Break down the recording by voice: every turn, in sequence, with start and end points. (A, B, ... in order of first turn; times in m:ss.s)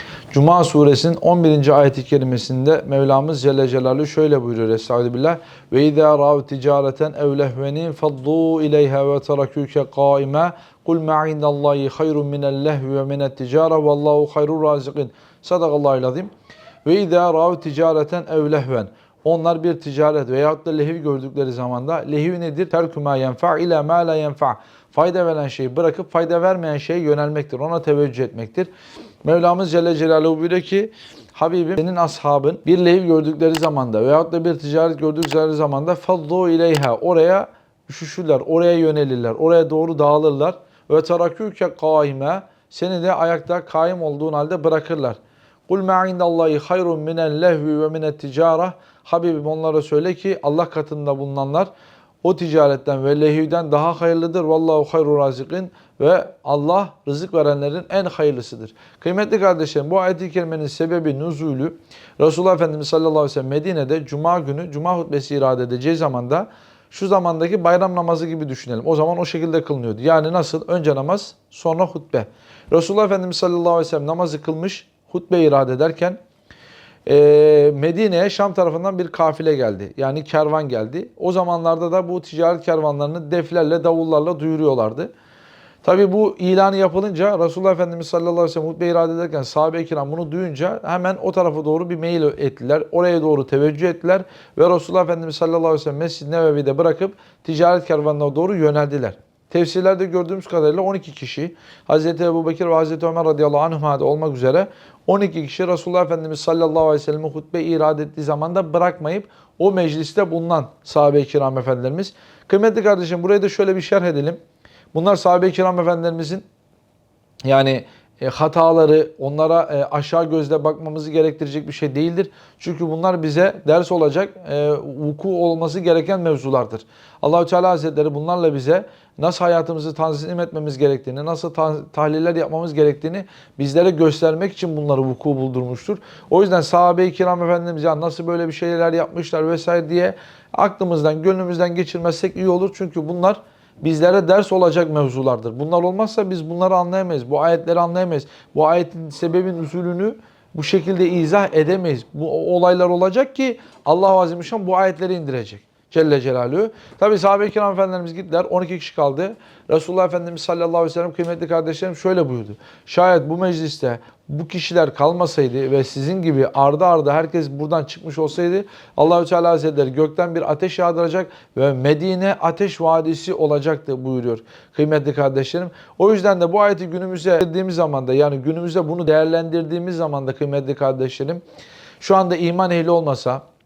0:00.3-0:16.3 A
0:16.8-0:28.7 A
0:29.2-0:51.7 A
0:52.2-1:16.2 A
1:17.0-1:25.1 A
1:25.8-1:54.4 A
1:54.9-1:56.4 A
1:57.4-3:01.4 A
3:02.0-3:03.4 A